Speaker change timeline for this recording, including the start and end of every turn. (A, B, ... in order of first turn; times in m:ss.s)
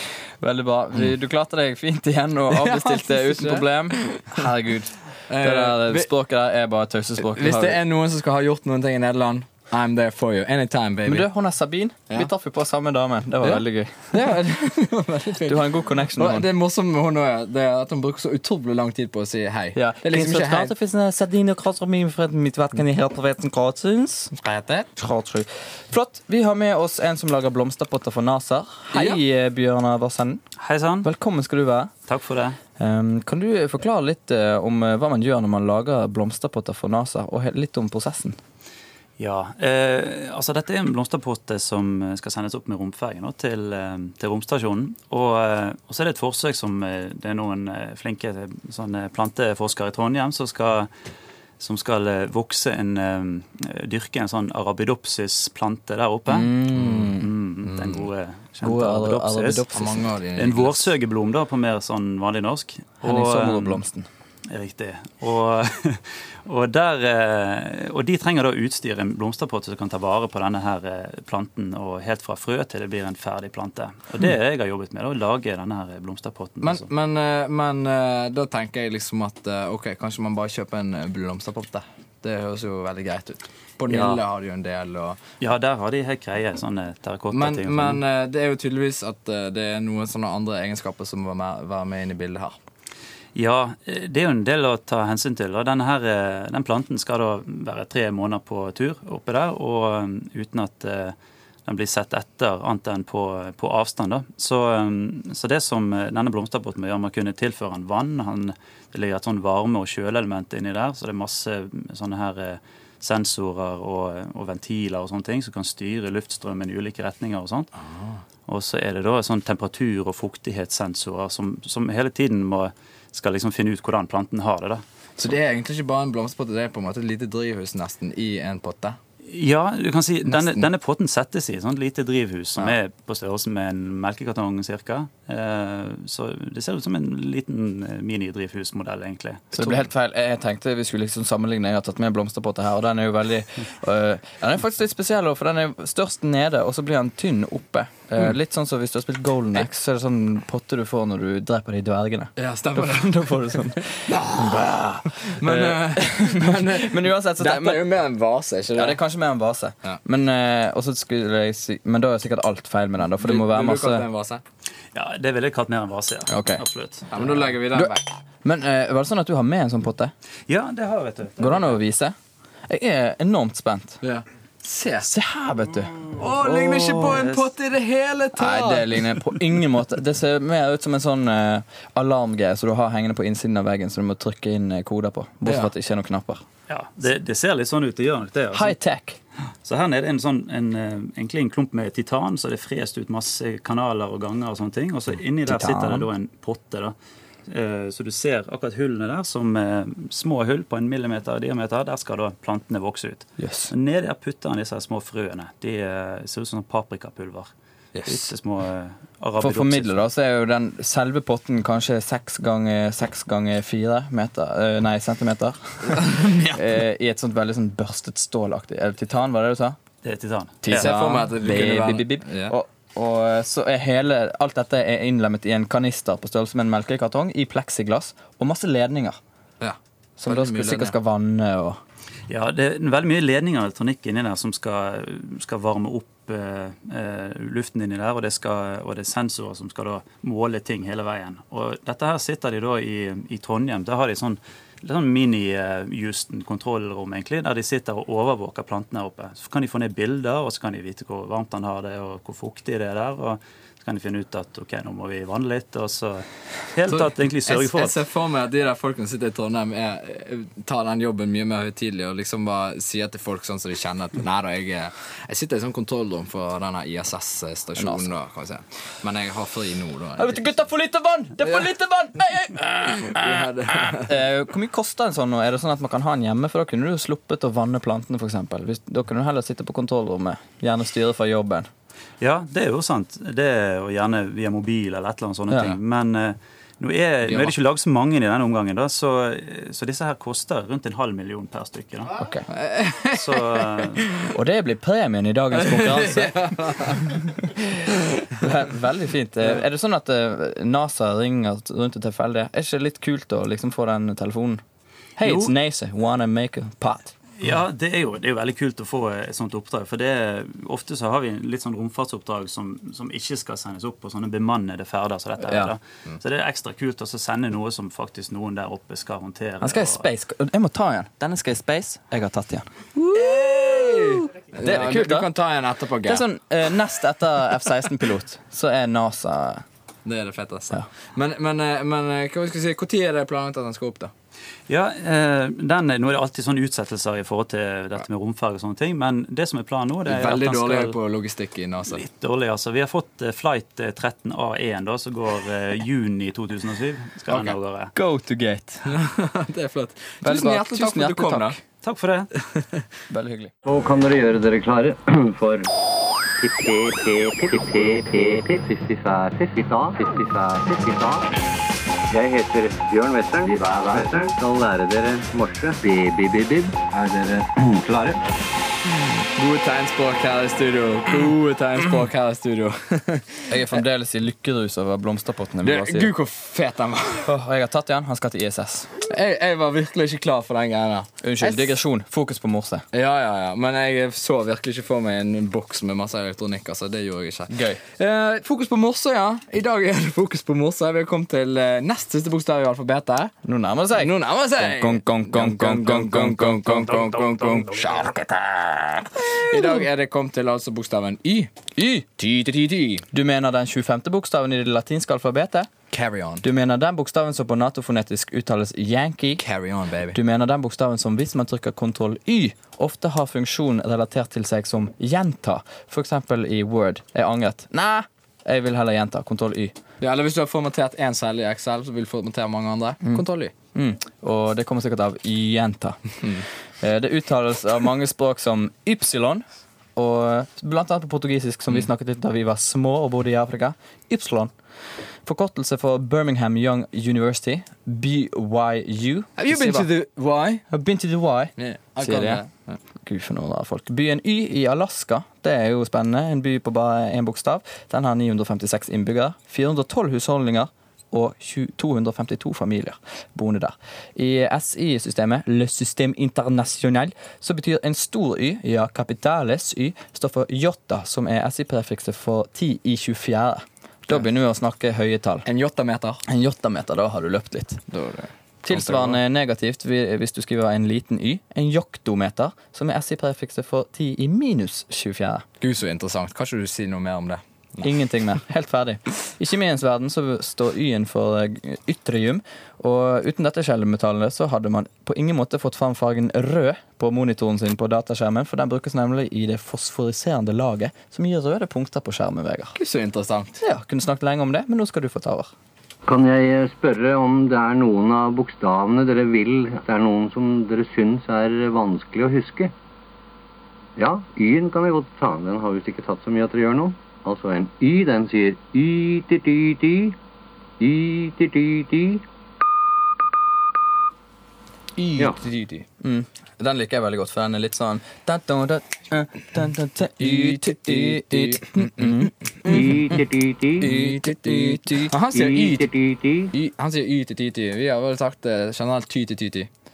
0:00.4-0:07.8 A
0:02.5-0:04.3 B
0:05.3-0:06.1 B
0:07.2-0:11.3 B
0:11.1-0:14.3 A
0:13.4-0:20.7 B
0:15.4-0:16.5 A
0:19.8-0:24.3 A
0:24.3-0:24.9 B
0:25.0-0:30.4 A
0:28.9-0:29.2 B
0:30.6-0:31.1 C
0:31.0-0:31.9 A
0:32.1-0:32.6 C
0:32.8-0:38.4 A
0:39.2-0:50.9 C
0:51.6-0:56.5 C
0:56.3-0:57.3 A
0:56.7-0:58.0 B
0:57.2-0:59.7 C
0:58.6-1:00.0 A
0:59.7-1:00.9 B
1:00.4-1:03.8 C
1:03.0-1:04.1 A
1:04.5-1:16.9 C
1:16.6-1:25.2 B
1:23.9-1:24.2 C
1:25.4-1:28.0 C
1:27.3-1:32.6 B
1:33.4-1:57.7 C
1:57.9-1:58.2 B
1:58.5-2:04.8 C
2:05.2-2:09.0 B
2:09.3-2:19.8 C
2:10.3-2:10.6 B
2:19.5-2:38.0 A
2:32.4-2:33.5 B
2:34.1-2:34.7 B
2:35.2-2:39.0 B
2:38.7-2:44.1 A
2:43.2-2:44.4 B
2:44.9-2:47.1 C
2:46.3-2:46.6 A
2:47.1-2:48.1 B
2:47.7-2:50.1 A
2:50.5-2:51.7 C
2:51.4-2:52.2 A
2:52.7-2:54.0 A
2:54.0-2:55.1 B
2:55.0-2:57.2 A
2:56.2-2:59.0 B
2:57.1-2:57.4 C
2:58.4-3:06.4 A
3:05.5-3:05.7 B
3:06.7-3:08.8 C
3:08.5-3:09.2 A
3:09.6-3:17.0 C
3:15.4-3:16.1 A
3:17.5-3:27.5 C
3:23.4-3:23.7 A
3:28.1-3:30.0 C
3:29.4-3:39.8 A
3:36.0-3:36.4 B
3:40.0-3:40.9 C
3:40.6-3:49.2 A
3:40.7-3:42.6 B
3:49.6-3:51.0 B
3:50.2-3:51.8 A
3:52.3-4:18.0 C
4:16.9-4:30.5 B
4:27.8-4:28.1 A
4:30.2-4:41.7 A
4:32.9-4:34.2 B
4:42.2-4:52.1 C
4:45.5-4:45.8 A
4:52.2-4:52.5 A
4:52.5-4:53.4 B
4:53.1-4:54.0 C
4:54.3-4:57.7 A
4:55.6-4:57.1 B
4:58.3-5:04.6 A
5:05.2-5:07.1 A
5:07.4-5:20.1 C
5:15.4-5:15.7 A
5:19.6-5:25.3 A
5:23.1-5:26.2 B
5:26.0-5:29.6 A
5:30.0-5:34.1 B
5:34.7-5:41.0 C
5:40.1-5:42.0 B
5:41.9-5:47.9 C
5:47.3-5:48.9 A
5:48.8-5:51.6 B
5:50.2-5:51.6 A
5:51.8-5:52.3 C
5:53.1-5:53.5 A
5:53.6-5:55.7 D
5:56.4-6:01.3 D
6:02.1-6:08.2 D
6:09.4-6:13.5 B
6:13.5-6:16.1 A
6:15.6-6:17.3 B
6:17.2-6:18.9 A
6:19.0-6:21.7 B
6:21.2-6:22.8 A
6:22.9-6:33.3 B
6:27.5-6:27.8 A
6:33.4-6:39.6 A
6:34.0-6:38.2 B
6:39.3-6:43.1 B
6:41.8-6:42.1 A
6:43.1-6:45.7 A
6:45.9-6:46.4 B
6:46.4-6:49.4 A
6:49.4-6:50.2 B
6:50.1-6:59.8 A
7:00.0-7:03.5 B
7:03.0-7:06.0 A
7:06.8-7:14.5 A
7:15.2-7:19.9 A
7:19.4-7:20.6 B
7:20.7-7:22.4 A
7:21.6-7:22.8 B
7:23.0-7:45.5 A
7:45.5-7:46.2 B
7:46.3-7:47.8 A
7:47.9-7:49.2 B
7:48.6-7:55.4 A
7:55.6-7:57.9 B
7:57.8-8:12.8 A
8:12.8-8:13.6 B
8:13.6-8:15.5 A
8:16.1-8:22.7 D
8:24.0-8:30.2 D
8:30.8-8:32.2 D
8:35.0-8:35.9 B
8:36.0-8:43.3 A
8:40.2-8:42.8 B
8:42.7-8:43.9 D
8:43.8-8:45.1 A
8:43.8-8:45.9 B
8:45.3-8:46.5 D
8:46.5-8:49.7 B